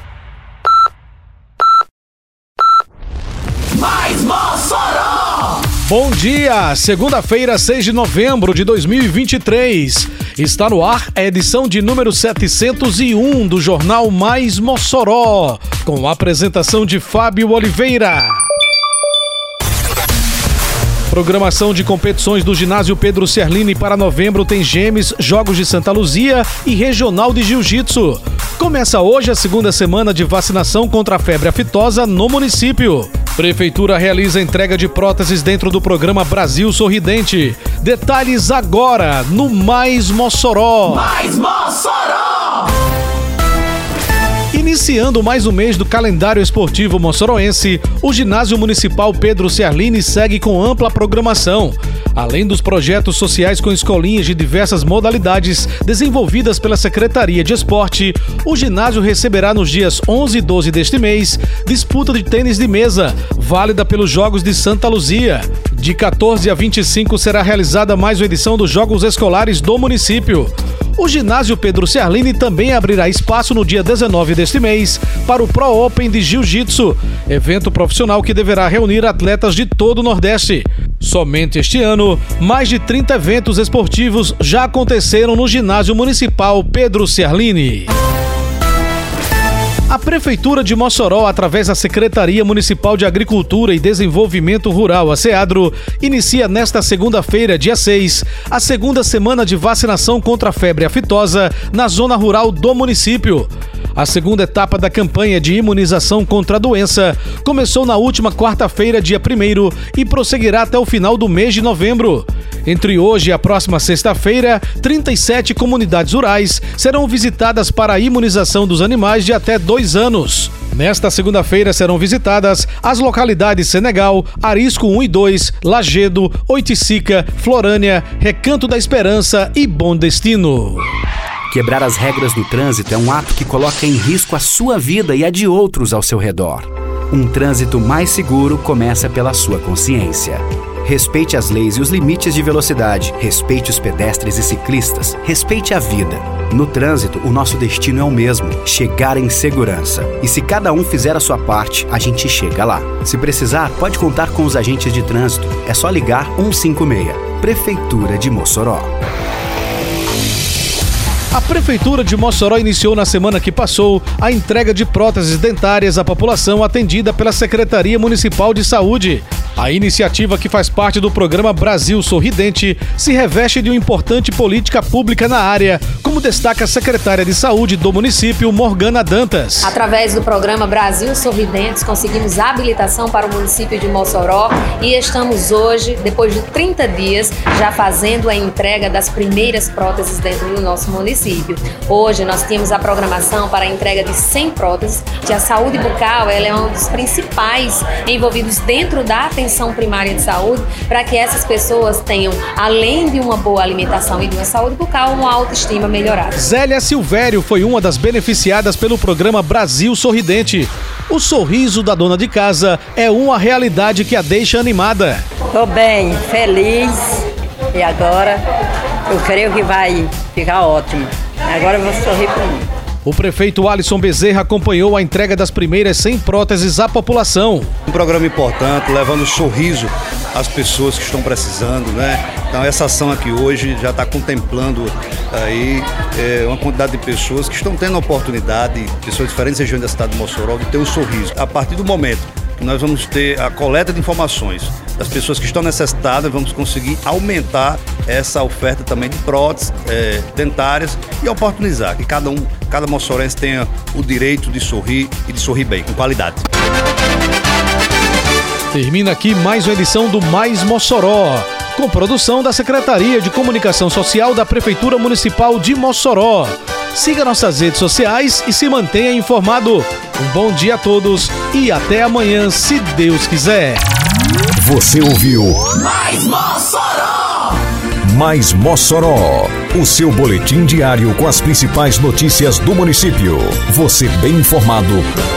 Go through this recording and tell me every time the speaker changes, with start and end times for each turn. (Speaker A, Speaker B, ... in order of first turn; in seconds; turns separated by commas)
Speaker A: 3.8-5.3, Speaker B: 5.8-18.4, Speaker B: 21.1-41.2, Speaker B: 44.5-87.9, Speaker B: 89.9-130.9, Speaker C: 131.5-158.9, Speaker B: 161.3-179.7, Speaker D: 179.6-206.4, Speaker B: 206.3-215.2, Speaker E: 215.5-217.2, Speaker E: 217.7-218.4, Speaker E: 219.1-222.7, Speaker B: 223.0-227.7, Speaker F: 227.9-256.4, Speaker B: 258.7-273.8, Speaker G: 274.6-275.8, Speaker A: 275.9-277.6, Speaker G: 278.0-285.1